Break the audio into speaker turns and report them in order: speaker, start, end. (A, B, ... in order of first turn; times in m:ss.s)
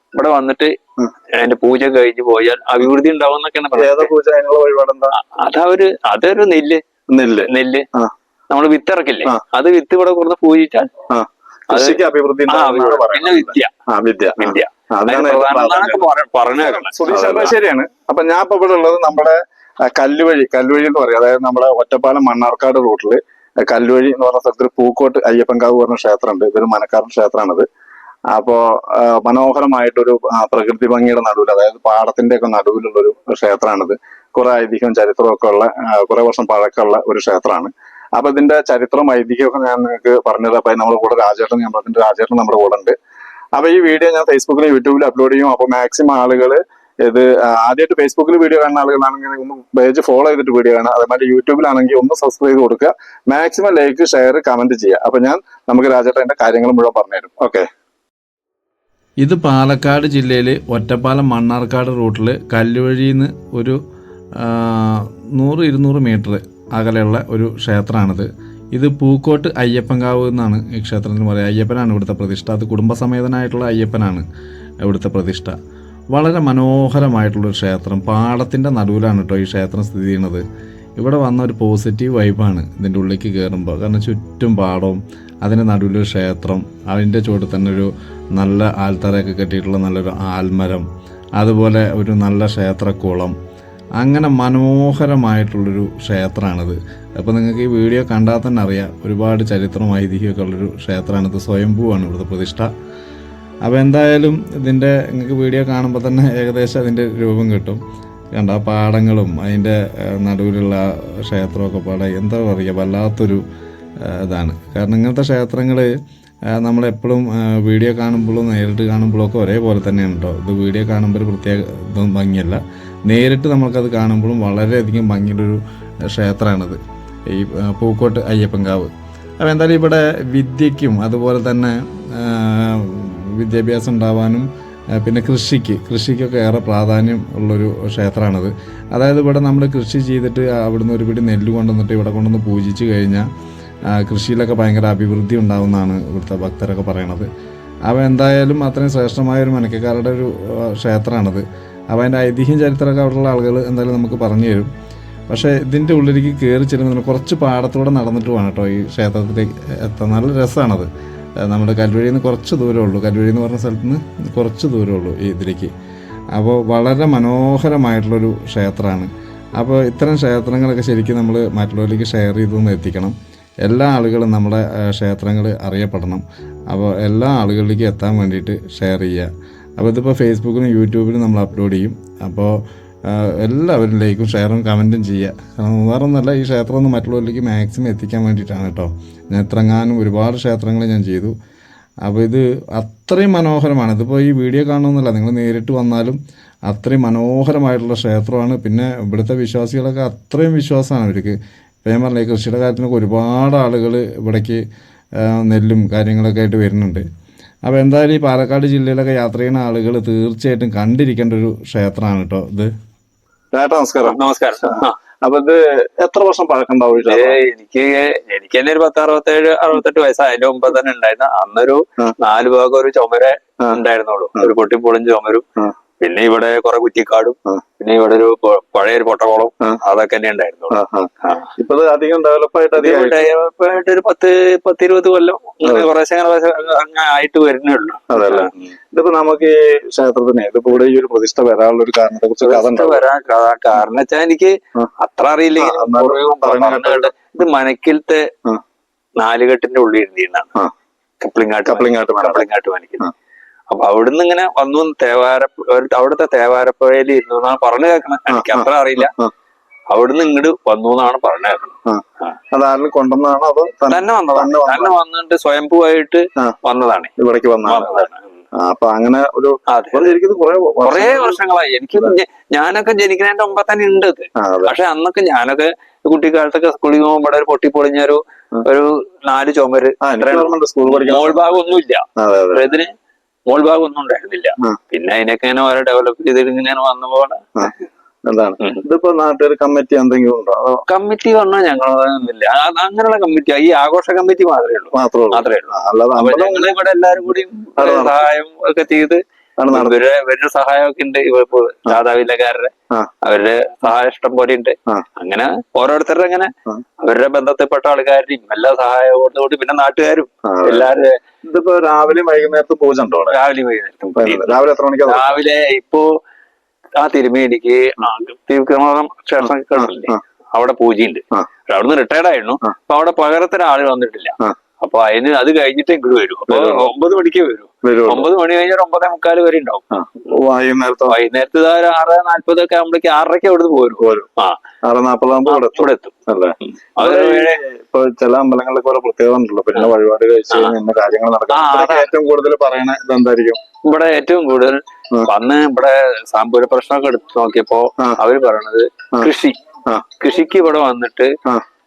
0:00.1-0:00.7 A
0:01.4-0:04.1 A
0:03.7-0:05.2 B
0:05.2-0:06.8 A
0:07.1-0:08.1 B
0:07.5-0:07.9 A
0:08.5-0:10.9 A
0:11.1-0:19.4 B
0:11.7-0:13.7 A
0:14.4-0:17.5 A
0:19.9-0:27.6 B
0:28.3-0:42.9 B
0:43.6-0:57.7 B
0:59.2-1:03.8 C
1:04.4-1:14.2 C
1:14.8-1:15.5 C
1:16.1-1:20.4 C
1:21.0-1:30.8 C
1:31.4-1:33.3 C
1:34.0-1:42.7 C
1:43.6-1:47.8 C
1:48.4-1:53.4 C
1:54.0-1:55.9 C
1:56.6-2:05.6 C
2:06.1-2:06.8 C
2:07.3-2:08.9 C
2:09.4-2:14.5 C
2:15.0-2:23.2 C
2:23.9-2:27.3 C
2:27.9-2:34.7 C
2:35.3-2:40.9 C
2:41.4-2:45.7 C
2:46.3-3:02.6 C
3:03.1-3:11.3 C
3:12.0-3:16.2 C
3:16.7-3:24.6 C
3:25.2-3:27.0 C
3:27.6-3:32.7 C
3:33.5-3:37.4 B
3:34.0-3:35.0 A
3:37.0-3:45.4 A
3:46.0-3:51.5 A
3:50.7-3:53.3 B
3:52.7-3:58.5 A
3:55.6-3:55.9 B
3:58.1-4:03.0 B
4:02.4-4:08.2 A
4:05.6-4:07.1 B
4:09.2-4:10.5 A
4:11.2-4:13.1 A
4:11.6-4:12.5 B
4:13.7-4:19.1 A
4:18.3-4:19.3 B
4:19.9-4:22.4 A
4:21.9-4:24.9 B
4:23.9-4:27.1 A
4:27.2-4:31.4 B
4:27.6-4:28.3 A
4:29.7-4:30.1 A
4:30.8-4:42.9 A
4:34.4-4:34.7 B
4:40.0-4:41.7 B
4:42.2-4:42.7 B
4:43.5-4:47.4 A
4:48.3-4:50.8 B
4:50.9-5:02.7 A
4:54.9-4:56.7 B
4:57.8-4:58.2 B
4:59.6-5:00.0 B
5:03.2-5:11.2 A
5:10.4-5:10.9 B
5:11.4-5:13.4 B
5:13.3-5:16.0 A
5:14.1-5:15.4 B
5:17.0-5:29.8 A
5:19.4-5:20.2 B
5:26.5-5:26.9 B
5:27.8-5:28.3 B
5:29.9-5:31.2 B
5:31.1-5:34.6 A
5:34.0-5:34.3 B
5:34.8-5:43.6 B
5:35.4-5:37.6 A
5:40.5-5:40.7 A
5:41.5-5:42.1 A
5:43.9-5:49.6 A
5:50.2-5:51.3 A